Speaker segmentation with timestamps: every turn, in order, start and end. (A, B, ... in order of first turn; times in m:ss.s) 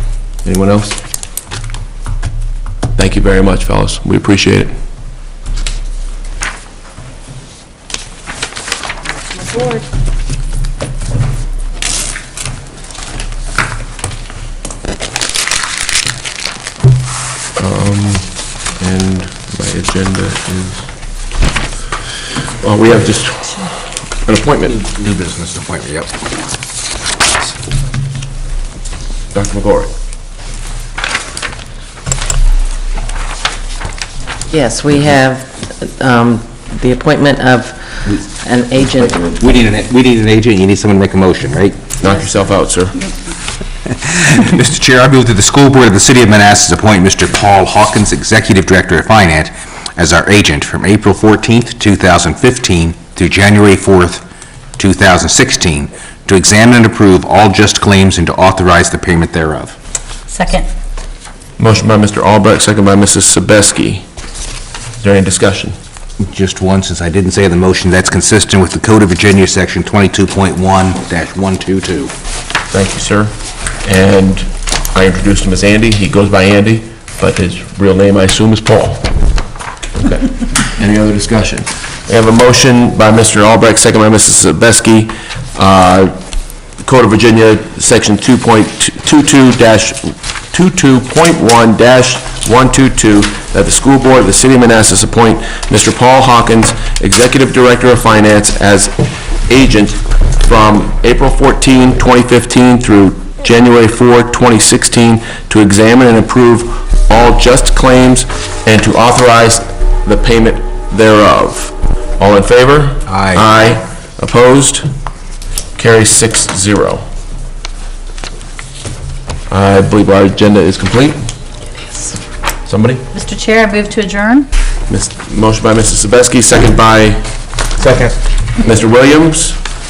0:00.4-0:01.0 A
0:02.9-0:04.7 A
0:09.5-0:09.8 B
0:17.6-0:20.9 A
0:22.5-0:23.7 A
0:24.2-0:24.8 A
0:24.7-0:26.1 C
0:29.3-0:29.9 A
0:34.5-0:39.3 D
0:39.2-0:41.8 C
0:42.0-0:43.1 A
0:43.8-0:54.2 C
0:54.8-0:59.8 C
1:00.3-1:00.7 B
1:01.6-1:04.0 A
1:05.0-1:05.8 A
1:06.2-1:12.1 C
1:12.7-1:19.1 A
1:20.0-1:26.2 A
1:26.8-1:38.9 A
1:39.5-1:54.9 A
1:53.0-1:53.5 C
1:55.8-1:57.0 A
1:59.5-2:01.2 A
2:02.6-2:03.1 A
2:03.1-2:04.5 B
2:04.9-2:07.2 A
2:07.8-2:08.1 C
2:08.6-2:09.6 A